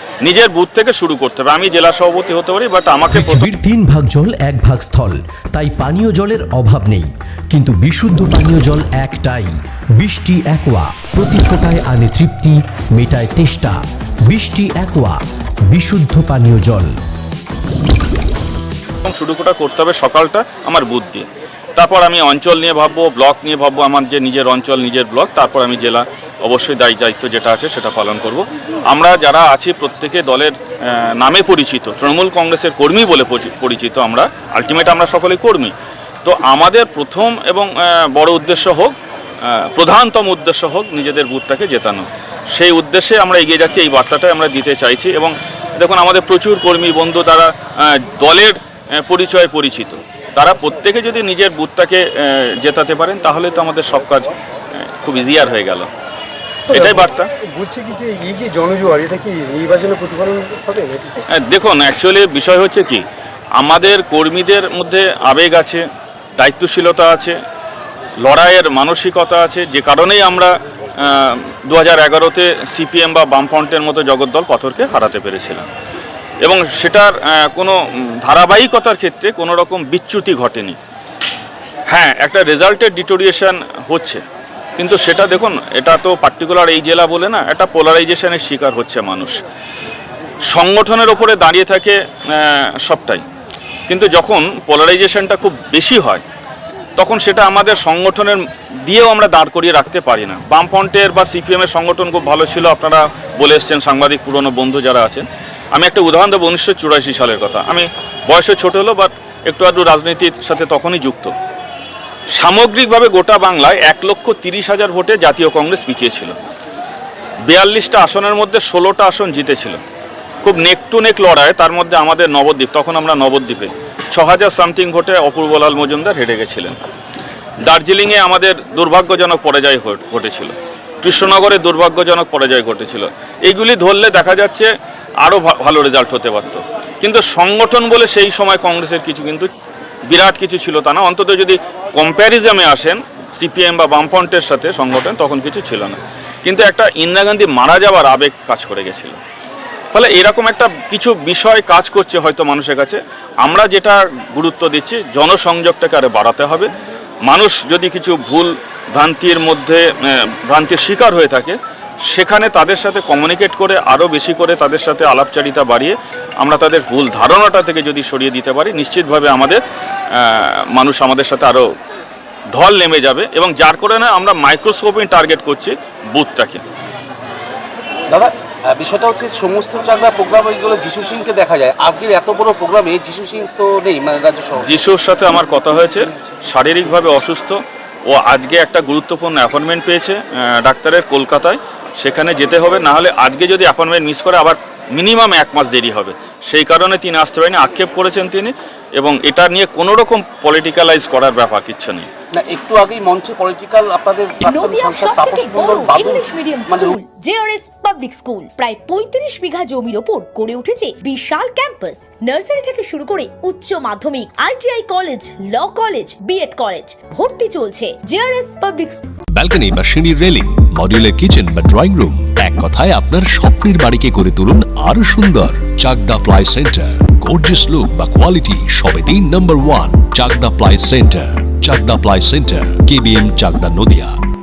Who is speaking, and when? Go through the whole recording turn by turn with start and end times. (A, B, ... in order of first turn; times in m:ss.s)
0:00.2-0:03.5 A
0:03.1-0:15.2 B
0:15.7-0:16.9 B
0:19.0-0:21.2 A
0:21.8-0:35.7 A
0:36.2-0:38.9 A
0:39.5-0:54.3 A
0:55.0-0:55.9 A
0:56.7-1:01.1 C
0:56.7-0:57.3 A
1:01.3-1:03.0 A
1:03.6-1:05.8 A
1:06.4-1:07.4 A
1:08.2-1:15.6 A
1:16.4-1:20.8 A
1:21.9-1:24.2 A
1:24.8-1:29.4 A
1:30.5-1:33.2 A
1:33.9-1:36.2 A
1:37.0-1:51.3 A
1:52.4-1:56.3 A
1:57.5-1:59.8 A
2:00.4-2:06.8 A
2:07.6-2:14.7 A
2:15.2-2:19.5 A
2:20.1-2:29.2 A
2:29.9-2:36.7 A
2:37.2-2:39.8 A
2:40.5-2:41.6 A
2:42.1-2:49.6 A
2:50.2-2:51.6 A
2:52.5-2:56.6 A
2:58.1-3:04.8 D
3:04.6-3:22.1 A
3:22.3-3:27.0 D
3:24.4-3:39.1 E
3:39.3-3:54.1 F